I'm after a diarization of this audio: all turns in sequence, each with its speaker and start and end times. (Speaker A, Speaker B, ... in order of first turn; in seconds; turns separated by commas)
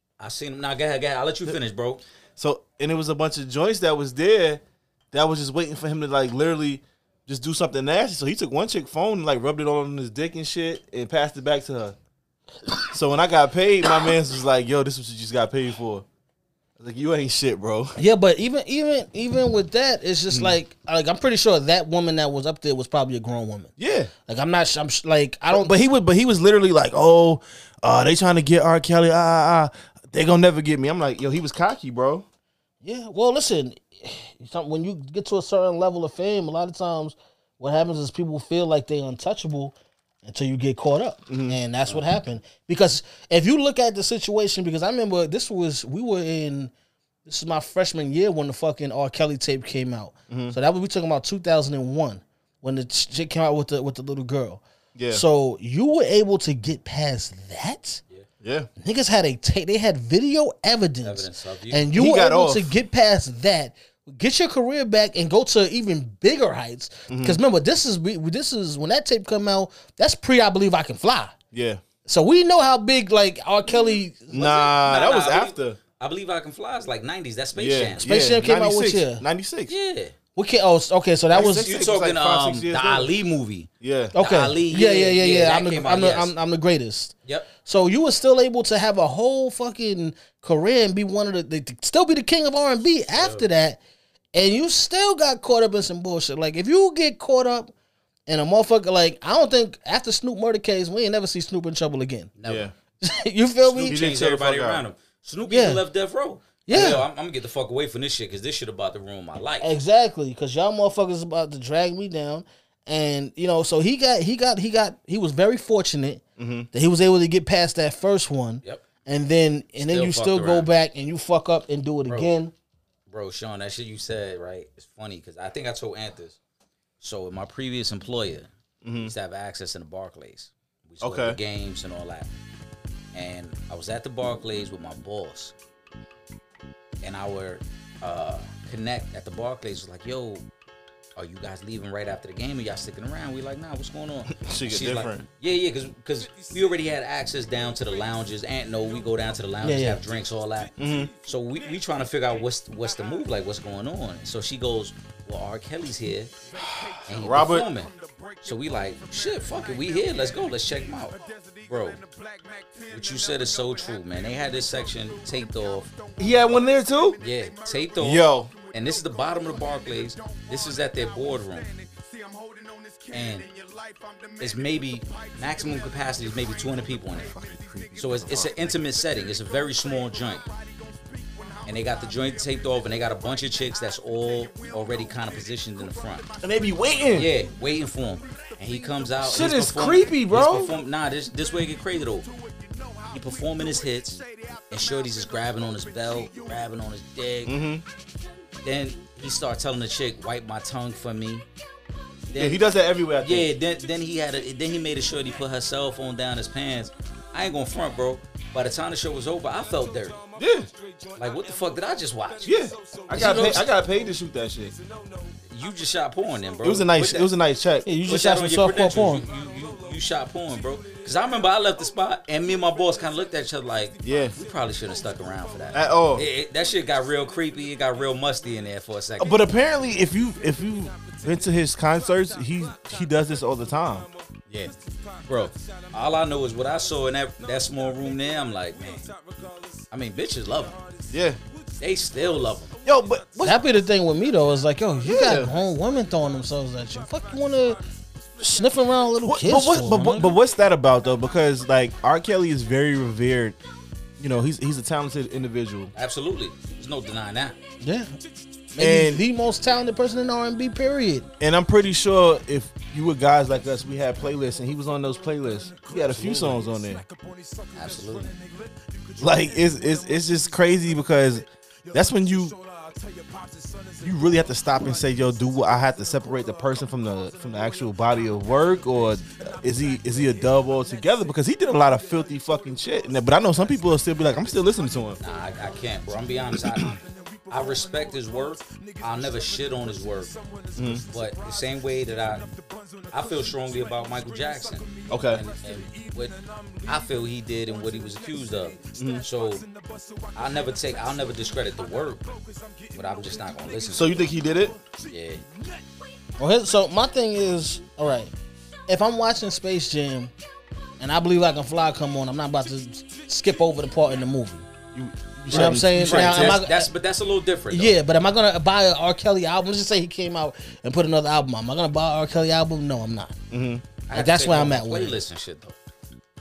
Speaker A: 0.2-2.0, Speaker B: 2.4-12.0, Speaker B: 12.9-16.1, Speaker B: 16.8-18.0, Speaker C: 18.0-23.7, Speaker B: 23.8-24.1, Speaker C: 24.3-25.7, Speaker B: 25.5-32.3, Speaker C: 32.8-46.7, Speaker B: 41.3-41.6, Speaker C: 47.3-58.0, Speaker B: 50.3-50.6, Speaker B: 55.0-55.2, Speaker B: 58.4-58.7, Speaker C: 58.8-71.3, Speaker A: 61.0-61.9, Speaker B: 61.9-62.8, Speaker B: 67.1-67.4, Speaker B: 71.5-71.8, Speaker C: 72.1-74.5, Speaker B: 74.3-75.8, Speaker A: 74.3-78.0, Speaker B: 77.5-79.7, Speaker C: 78.0-79.2, Speaker A: 79.7-80.1, Speaker C: 80.4-81.7, Speaker B: 81.3-83.1, Speaker A: 81.3-86.3, Speaker B: 83.8-84.2, Speaker C: 84.2-93.8, Speaker A: 93.2-93.5, Speaker C: 94.3-97.7, Speaker C: 98.3-102.3, Speaker A: 102.4-102.7, Speaker B: 102.5-102.7, Speaker C: 103.0-104.0, Speaker A: 103.7-109.7, Speaker B: 103.9-104.8, Speaker C: 105.5-105.8, Speaker C: 106.7-107.0, Speaker C: 109.6-122.5, Speaker B: 116.4-116.7, Speaker A: 119.9-120.7, Speaker A: 123.1-126.4, Speaker A: 127.0-132.3, Speaker B: 128.8-129.1, Speaker B: 131.0-131.4, Speaker A: 133.1-135.5, Speaker A: 137.0-140.5, Speaker A: 141.2-156.3, Speaker B: 144.3-145.2, Speaker C: 149.6-150.0, Speaker B: 150.8-151.1, Speaker B: 156.6-157.7, Speaker A: 157.1-162.0, Speaker A: 162.9-165.9, Speaker B: 166.2-167.2, Speaker A: 167.2-171.7, Speaker B: 168.0-168.5, Speaker A: 173.1-173.5, Speaker A: 174.4-177.3, Speaker B: 177.2-178.5, Speaker A: 177.9-180.5, Speaker A: 181.7-186.3, Speaker B: 186.4-187.3, Speaker A: 187.1-192.3, Speaker B: 189.2-190.8, Speaker A: 193.1-197.6, Speaker B: 197.5-197.8, Speaker A: 198.6-201.5, Speaker A: 202.3-202.6, Speaker B: 202.3-203.5, Speaker A: 203.2-210.2, Speaker B: 210.4-210.7, Speaker A: 211.2-212.5, Speaker B: 212.4-214.8, Speaker A: 213.1-213.7, Speaker A: 215.5-217.3, Speaker B: 216.6-217.9, Speaker C: 217.8-219.2, Speaker A: 218.1-229.4, Speaker B: 224.1-224.4, Speaker B: 225.7-226.3, Speaker B: 229.2-234.1, Speaker A: 235.2-239.1, Speaker A: 239.9-240.8, Speaker B: 241.1-241.4, Speaker A: 241.8-242.8, Speaker B: 242.8-243.6, Speaker C: 243.4-247.8, Speaker B: 245.0-245.6, Speaker C: 248.4-250.3, Speaker B: 249.2-253.6, Speaker A: 249.9-250.3, Speaker B: 254.2-255.9, Speaker A: 255.9-257.6, Speaker C: 257.8-258.1, Speaker B: 258.8-259.2, Speaker C: 258.8-261.3, Speaker B: 261.4-267.0, Speaker A: 266.1-266.6, Speaker A: 267.7-268.4, Speaker B: 269.2-272.6, Speaker B: 274.0-285.2, Speaker A: 285.2-290.4, Speaker B: 286.6-286.9, Speaker B: 290.8-291.0, Speaker A: 290.9-292.5, Speaker A: 293.1-299.7, Speaker B: 295.1-295.4, Speaker B: 299.0-299.3, Speaker A: 300.4-302.3, Speaker A: 302.9-304.3, Speaker B: 303.9-304.8, Speaker A: 305.1-305.4, Speaker C: 306.4-308.3, Speaker C: 308.9-310.3, Speaker C: 311.0-314.7, Speaker B: 314.9-316.6, Speaker C: 315.5-316.9, Speaker A: 315.5-318.0, Speaker C: 317.7-323.4, Speaker B: 323.5-323.9, Speaker A: 324.1-325.8, Speaker C: 324.1-325.2